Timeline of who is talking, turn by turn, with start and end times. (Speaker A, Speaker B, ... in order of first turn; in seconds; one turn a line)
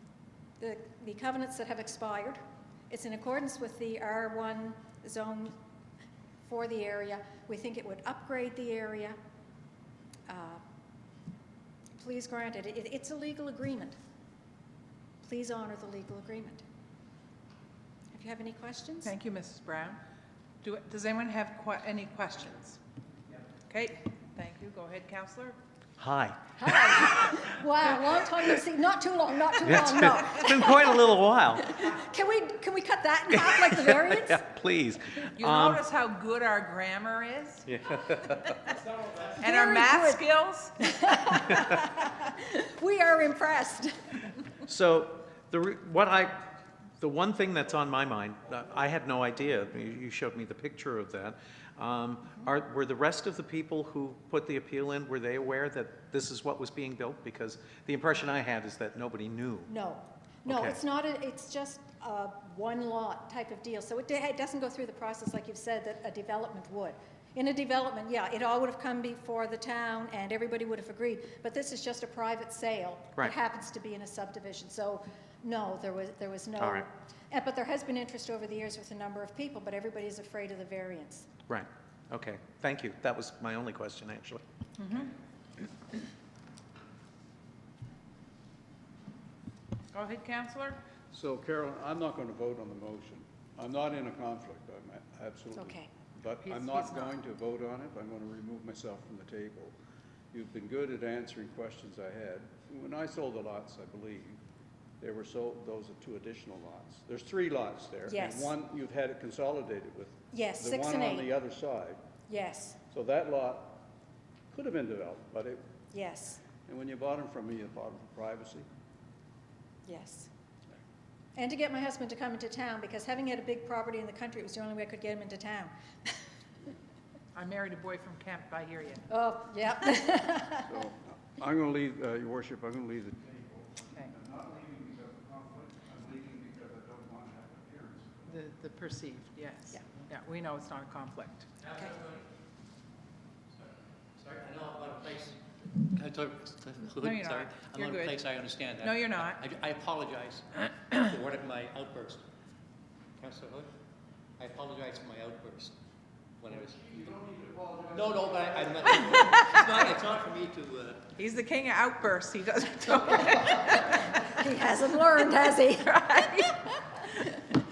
Speaker A: 0.6-5.6
Speaker A: 6.5-9.2
Speaker A: 10.3-10.6
Speaker A: 12.0-13.9
Speaker A: 15.2-16.6
Speaker A: 18.1-19.1
Speaker B: 19.0-20.0
Speaker B: 20.6-22.8
Speaker B: 23.7-25.6
Speaker C: 26.0-27.4
Speaker A: 26.6-30.9
Speaker C: 29.6-31.8
Speaker A: 31.7-34.5
Speaker C: 33.5-35.8
Speaker B: 35.4-37.7
Speaker C: 37.7-38.6
Speaker B: 38.7-41.5
Speaker A: 39.4-40.2
Speaker A: 40.8-44.3
Speaker C: 44.7-46.5
Speaker C: 47.0-59.7
Speaker A: 59.7-81.3
Speaker C: 60.5-60.8
Speaker C: 76.6-76.9
Speaker C: 81.5-84.4
Speaker B: 84.8-85.1
Speaker B: 89.9-90.8
Speaker D: 91.1-99.8
Speaker A: 95.5-95.9
Speaker B: 96.4-97.1
Speaker D: 100.3-104.4
Speaker D: 105.0-112.0
Speaker A: 108.1-108.5
Speaker A: 110.3-111.3
Speaker A: 112.3-112.8
Speaker D: 112.9-113.8
Speaker D: 114.5-115.6
Speaker A: 115.9-116.4
Speaker D: 116.7-118.7
Speaker A: 119.9-120.3
Speaker A: 121.4-125.7
Speaker B: 127.3-129.1
Speaker A: 129.1-130.7
Speaker D: 130.6-138.4
Speaker B: 138.3-141.5
Speaker E: 141.6-142.2
Speaker E: 144.2-152.2
Speaker B: 147.0-148.2
Speaker B: 148.8-149.4
Speaker E: 153.2-153.7
Speaker E: 154.4-155.8
Speaker E: 156.4-157.0
Speaker D: 156.7-159.0
Speaker E: 157.9-161.1
Speaker B: 159.2-159.5
Speaker B: 161.2-164.3
Speaker A: 164.2-166.8
Speaker B: 166.0-167.6